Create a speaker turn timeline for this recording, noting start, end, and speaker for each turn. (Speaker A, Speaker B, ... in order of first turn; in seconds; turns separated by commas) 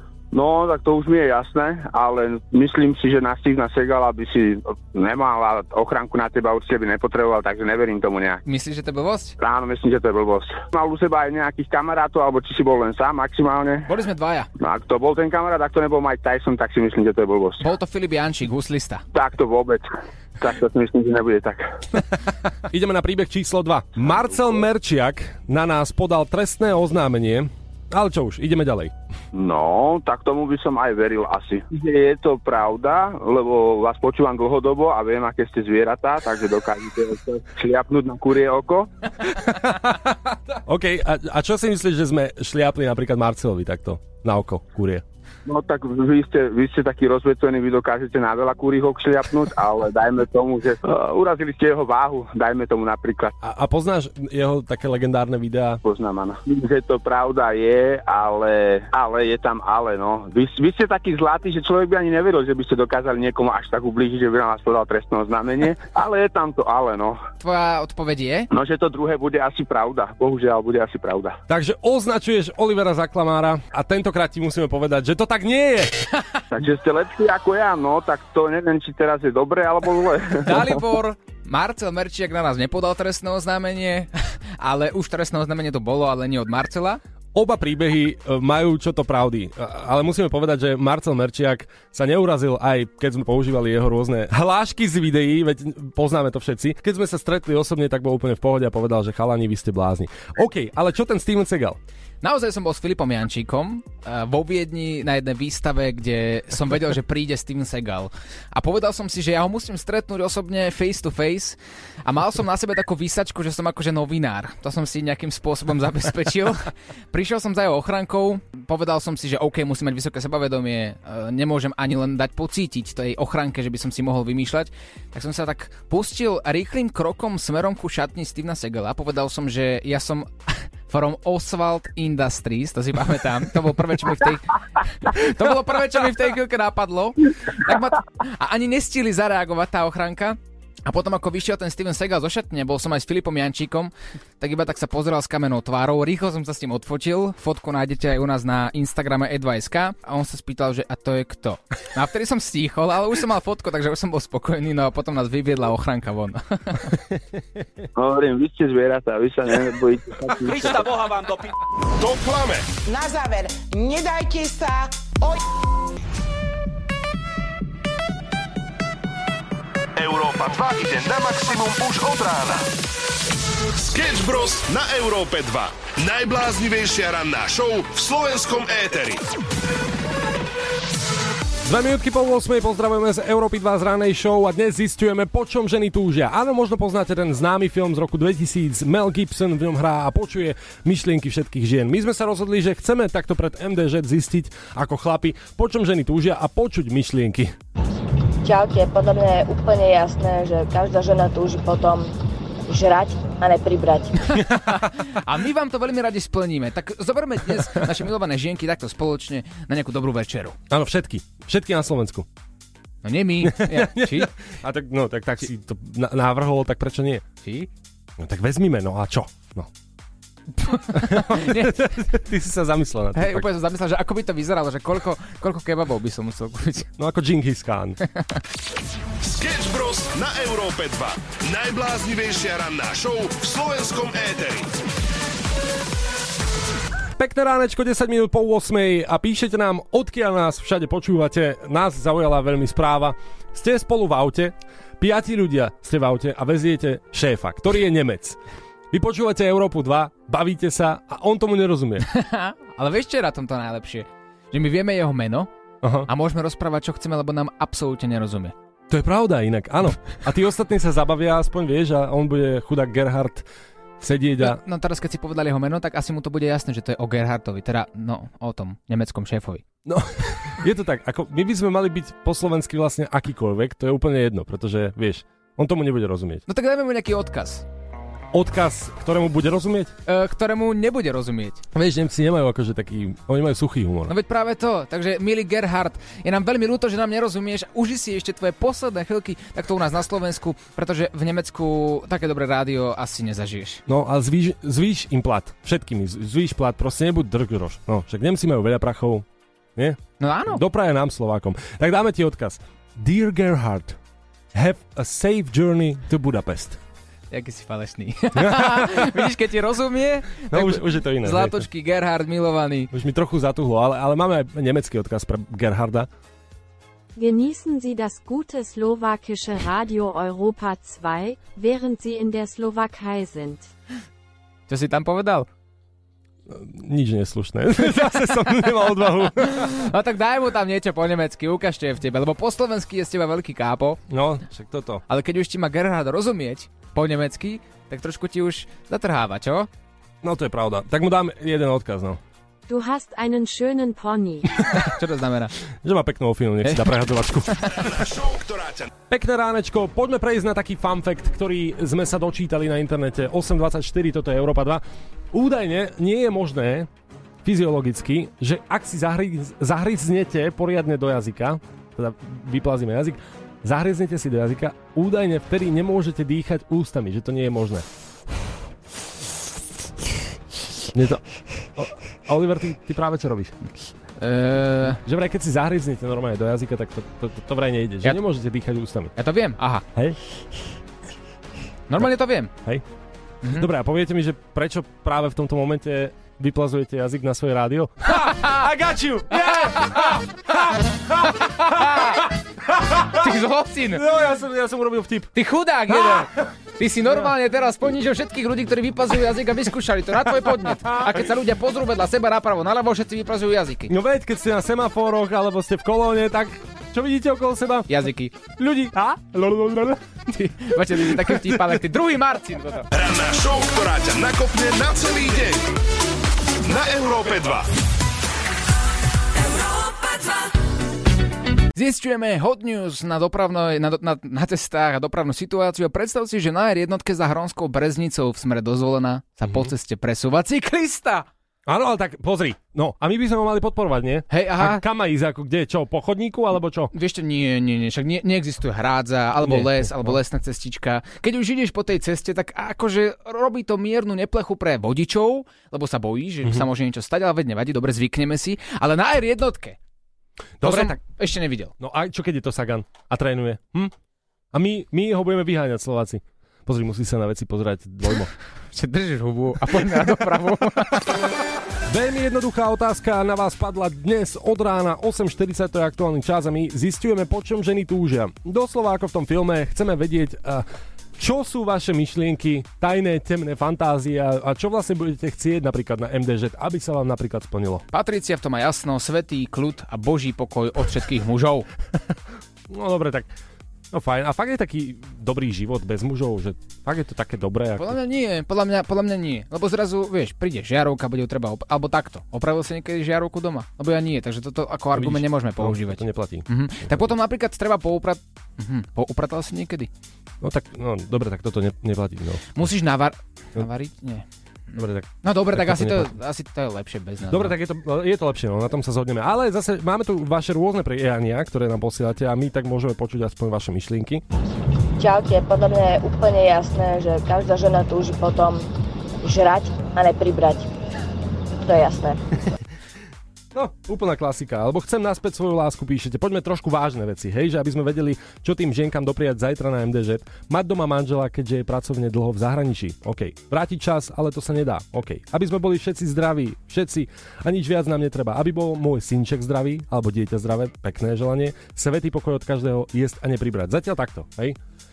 Speaker A: 0.3-8.4, Speaker B: 8.4-9.3, Speaker A: 9.4-13.9, Speaker B: 13.9-14.5, Speaker A: 14.6-17.6, Speaker B: 17.6-19.0, Speaker A: 19.1-19.9, Speaker A: 20.4-21.7, Speaker C: 22.6-28.9, Speaker A: 29.3-38.9, Speaker C: 39.4-45.0, Speaker A: 45.5-53.3, Speaker C: 53.4-55.8, Speaker A: 55.8-67.2, Speaker B: 67.4-68.5, Speaker A: 68.5-71.4, Speaker C: 71.5-76.0, Speaker A: 76.5-80.7, Speaker B: 80.4-87.0, Speaker C: 87.3-101.8, Speaker B: 102.2-157.0, Speaker A: 157.9-160.9, Speaker D: 162.0-162.7, Speaker E: 162.8-165.4, Speaker D: 169.9-172.7, Speaker D: 173.7-179.2, Speaker C: 181.6-197.5, Speaker F: 198.4-202.1, Speaker F: 202.7-204.4, Speaker B: 204.3-210.6, Speaker C: 204.4-204.9, Speaker C: 210.7-212.3, Speaker B: 213.0-214.3, Speaker C: 213.4-217.2, Speaker B: 217.4-217.7, Speaker C: 218.2-219.7, Speaker B: 220.6-221.7, Speaker C: 220.9-223.5, Speaker B: 223.1-226.9, Speaker C: 227.0-228.0, Speaker D: 229.2-234.7, Speaker C: 237.2-248.4, Speaker C: 248.9-252.1, Speaker B: 252.1-255.5, Speaker C: 255.8-256.1, Speaker B: 256.1-258.5, Speaker C: 258.9-263.5, Speaker C: 264.0-264.6, Speaker B: 264.4-269.6, Speaker C: 269.9-276.4, Speaker B: 276.5-277.6, Speaker C: 278.3-279.9, Speaker B: 280.1-281.6, Speaker C: 281.7-284.1, Speaker B: 284.1-293.8, Speaker C: 293.9-304.0, Speaker B: 300.2-300.6, Speaker C: 304.5-306.8, Speaker B: 307.3-312.9, Speaker C: 308.3-309.2, Speaker C: 310.5-311.6, Speaker C: 312.9-316.1, Speaker G: 317.1-323.7, Speaker B: 324.7-325.5, Speaker C: 326.5-329.7, Speaker B: 329.5-334.0, Speaker C: 334.1-335.0, Speaker B: 335.1-339.7, Speaker C: 340.2-342.2, Speaker G: 342.7-344.5, Speaker B: 344.6-345.5, Speaker C: 345.8-347.7, Speaker D: 347.7-348.9, Speaker C: 349.1-356.9, Speaker C: 357.4-367.8, Speaker C: 370.9-371.2, Speaker C: 371.7-373.6, Speaker B: 374.2-375.0, Speaker C: 374.9-379.1, Speaker B: 379.1-379.8, Speaker B: 381.9-382.5, Speaker C: 382.6-382.8, Speaker B: 383.4-383.7, Speaker C: 383.5-392.1, Speaker B: 388.1-388.6, Speaker B: 389.5-390.2, Speaker B: 391.2-392.3, Speaker C: 392.8-393.2, Speaker B: 393.0-394.0, Speaker C: 393.9-395.3, Speaker B: 395.3-403.9, Speaker C: 395.9-396.2, Speaker C: 403.9-407.9, Speaker B: 407.9-408.3, Speaker C: 408.5-411.8, Speaker B: 410.3-412.9, Speaker D: 412.9-415.7, Speaker D: 416.6-417.7, Speaker B: 421.7-431.2, Speaker C: 429.4-429.7, Speaker C: 431.7-436.9, Speaker B: 434.3-434.8, Speaker B: 436.9-449.8, Speaker C: 439.4-440.1, Speaker C: 450.6-451.0, Speaker B: 450.6-451.7, Speaker C: 451.8-453.9, Speaker C: 454.5-458.3, Speaker B: 458.7-461.1, Speaker C: 461.9-477.8, Speaker B: 477.9-481.7, Speaker C: 482.7-483.3, Speaker C: 483.9-488.0, Speaker B: 487.8-499.9, Speaker C: 494.9-497.1, Speaker C: 500.4-502.5, Speaker B: 502.5-504.2, Speaker C: 504.7-506.1, Speaker B: 505.2-507.5, Speaker C: 507.3-514.2, Speaker F: 515.0-518.7, Speaker F: 519.2-520.7, Speaker F: 521.6-522.2, Speaker C: 523.5-544.6